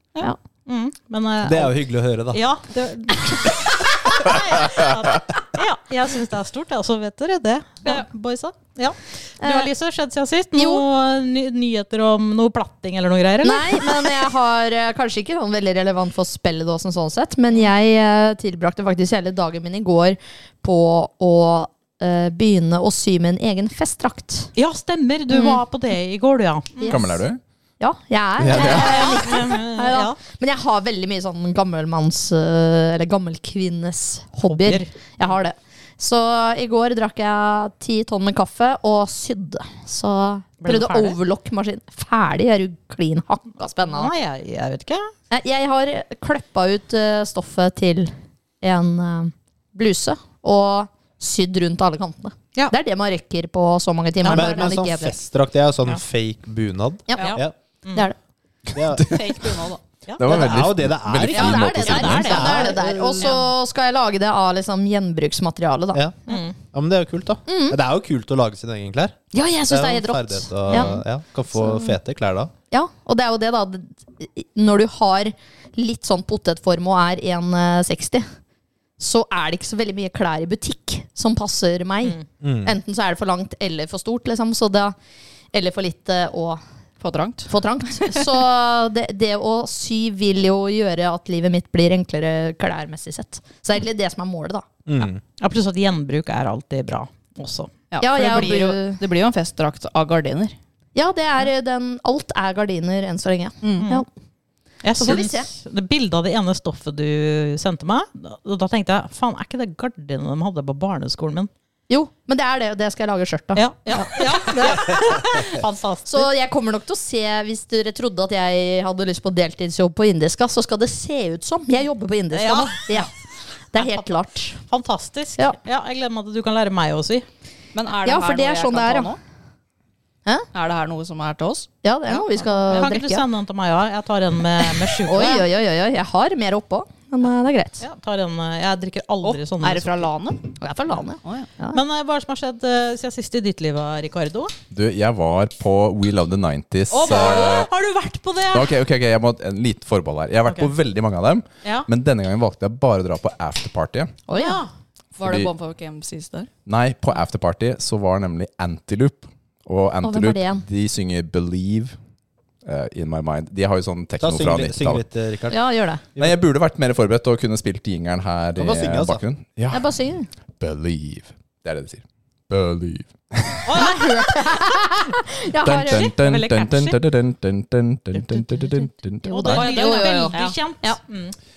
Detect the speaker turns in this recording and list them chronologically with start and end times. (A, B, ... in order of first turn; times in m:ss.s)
0:00.7-0:01.8 A
0:01.4-0:02.4 B
0:02.3-0:14.2 A
0:09.4-0:09.7 C
0:10.6-0:10.8 C
0:13.4-0:24.5 C
0:24.6-0:27.1 A
0:25.3-0:25.6 C
0:26.8-0:27.2 C
0:26.9-0:27.4 D
0:27.8-0:44.1 C
0:28.4-0:29.0 D
0:28.5-0:30.2 A
0:34.4-0:35.4 A
0:40.6-0:41.2 A
0:43.8-0:45.1 A
0:45.3-0:55.1 C
0:54.2-0:54.7 A
0:54.2-0:57.6 B
0:57.1-0:57.4 C
0:57.2-0:58.1 A
0:58.7-0:59.2 B
0:58.8-0:59.4 D
0:59.0-0:59.8 E
1:00.1-1:00.4 A
1:00.2-1:02.6 D
1:00.2-1:02.8 B
1:01.3-1:06.4 C
1:01.8-1:02.7 A
1:02.0-1:03.4 E
1:05.9-1:12.5 B
1:06.3-1:06.6 A
1:07.5-1:07.8 C
1:09.3-1:11.0 C
1:11.6-1:12.0 C
1:12.7-1:18.3 C
1:19.0-1:25.0 C
1:22.4-1:22.8 B
1:25.5-1:26.6 C
1:27.0-1:27.5 E
1:27.5-1:34.7 C
1:34.9-1:35.2 B
1:35.0-1:37.7 A
1:37.9-1:40.6 E
1:38.0-1:39.0 C
1:41.0-1:44.1 C
1:43.6-1:43.9 E
1:43.8-1:44.0 A
1:44.8-1:51.5 A
1:45.0-1:45.5 C
1:51.9-1:54.8 C
1:53.6-1:56.3 A
1:56.1-2:03.1 C
2:02.3-2:03.1 A
2:03.7-2:04.6 C
2:03.8-2:04.1 A
2:04.6-2:07.2 A
2:07.7-2:09.2 E
2:08.0-2:09.1 C
2:10.5-2:12.9 E
2:11.8-2:13.2 C
2:12.7-2:15.5 A
2:15.0-2:17.8 C
2:17.8-2:20.1 A
2:19.2-2:20.5 E
2:20.6-2:21.8 C
2:21.7-2:24.5 A
2:24.7-2:27.7 D
2:26.9-2:27.6 E
2:26.9-2:28.7 A
2:28.5-2:34.1 D
2:34.3-2:34.6 C
2:34.3-2:34.7 A
2:35.2-2:36.5 E
2:35.2-2:35.5 D
2:36.7-2:42.0 D
2:40.0-2:40.6 C
2:42.6-2:45.0 D
2:44.2-2:45.6 B
2:45.5-2:46.0 C
2:46.2-2:49.9 D
2:48.6-2:49.2 B
2:49.7-2:50.3 C
2:50.6-2:53.8 D
2:53.6-2:54.5 A
2:53.8-2:56.1 C
2:55.6-2:59.7 D
2:55.8-2:57.0 A
2:59.2-3:01.0 C
2:59.3-3:01.4 A
2:59.5-3:00.6 E